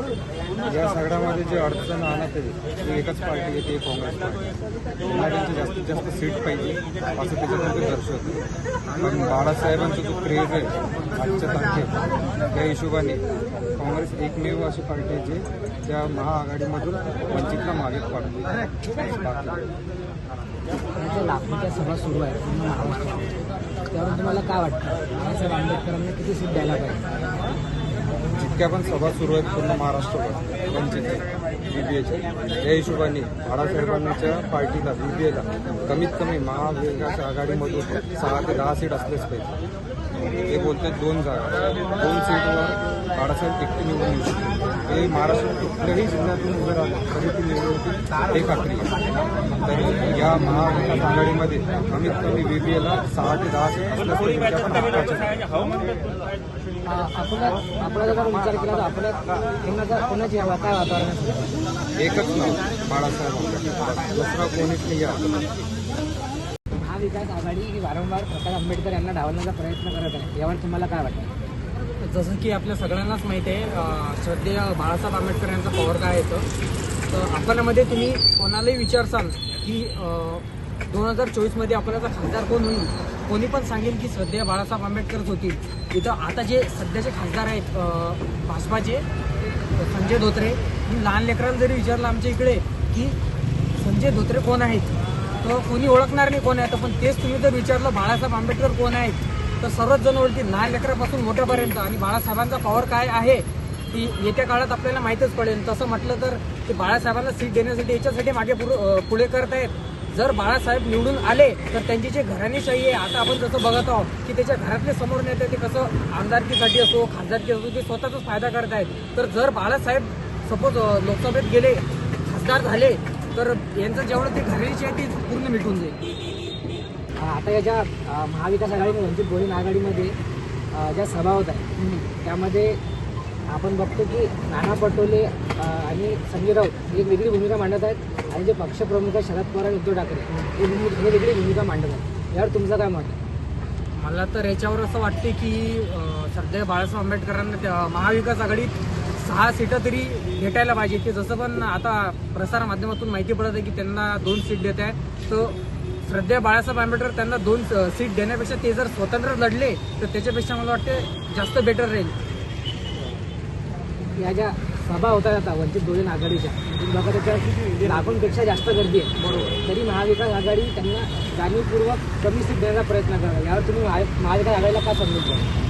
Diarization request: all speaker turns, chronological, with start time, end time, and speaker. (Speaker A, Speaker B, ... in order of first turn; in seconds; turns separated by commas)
Speaker A: 0.6-11.9, Speaker A: 12.5-19.7, Speaker B: 20.9-23.3, Speaker B: 23.9-27.2, Speaker A: 28.4-39.5, Speaker A: 40.2-49.0, Speaker A: 49.5-55.6, Speaker B: 56.9-61.6, Speaker A: 62.0-65.2, Speaker B: 66.8-71.3, Speaker C: 72.0-76.5, Speaker C: 77.1-89.0, Speaker C: 89.7-93.2, Speaker C: 93.8-94.9, Speaker C: 95.4-126.0, Speaker B: 127.2-130.2, Speaker B: 130.7-132.8, Speaker C: 131.8-132.1, Speaker B: 133.5-143.2, Speaker C: 144.0-162.1, Speaker B: 164.2-175.5, Speaker C: 167.8-168.1, Speaker C: 169.2-169.6